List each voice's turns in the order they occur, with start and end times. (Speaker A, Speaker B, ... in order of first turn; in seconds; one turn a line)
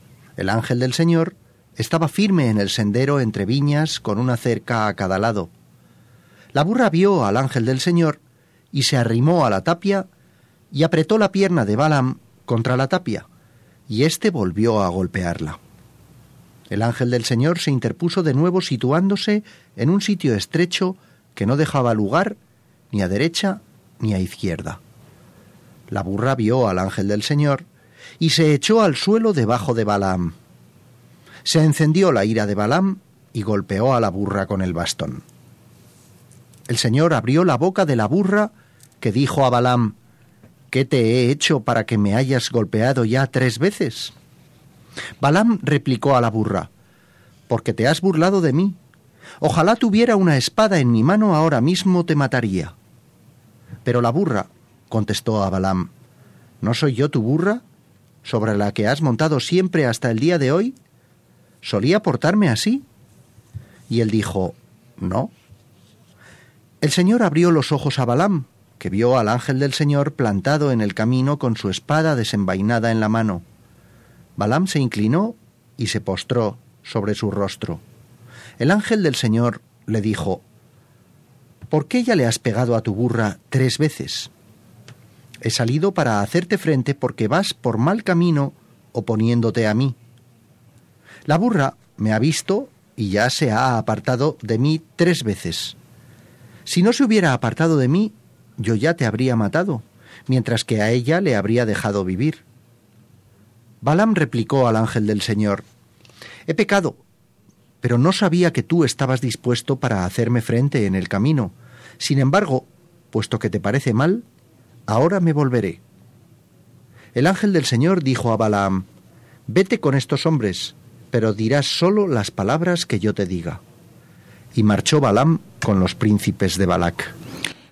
Speaker A: 0.4-5.5
Speaker A: 6.5-8.2
Speaker A: 8.7-10.1
Speaker A: 10.7-13.2
Speaker A: 13.9-15.6
Speaker A: 16.7-22.4
Speaker A: 22.9-24.8
Speaker A: 25.9-27.6
Speaker A: 28.2-30.3
Speaker A: 31.4-35.2
Speaker A: 36.7-39.9
Speaker A: 40.7-44.1
Speaker A: 45.2-46.7
Speaker A: 47.5-48.8
Speaker A: 49.4-52.7
Speaker A: 53.8-55.9
Speaker A: 56.6-57.6
Speaker A: 58.2-60.8
Speaker A: 61.6-62.8
Speaker A: 63.9-65.3
Speaker A: 66.8-73.4
Speaker A: 74.4-77.8
Speaker A: 78.6-80.4
Speaker A: 81.7-84.3
Speaker A: 85.4-90.0
Speaker A: 91.3-95.8
Speaker A: 96.7-102.4
Speaker A: 103.8-105.6
Speaker A: 106.5-107.0
Speaker A: 107.8-114.2
Speaker A: 114.9-115.8
Speaker A: 117.1-118.8
Speaker A: 119.5-123.6
Speaker A: 124.5-127.1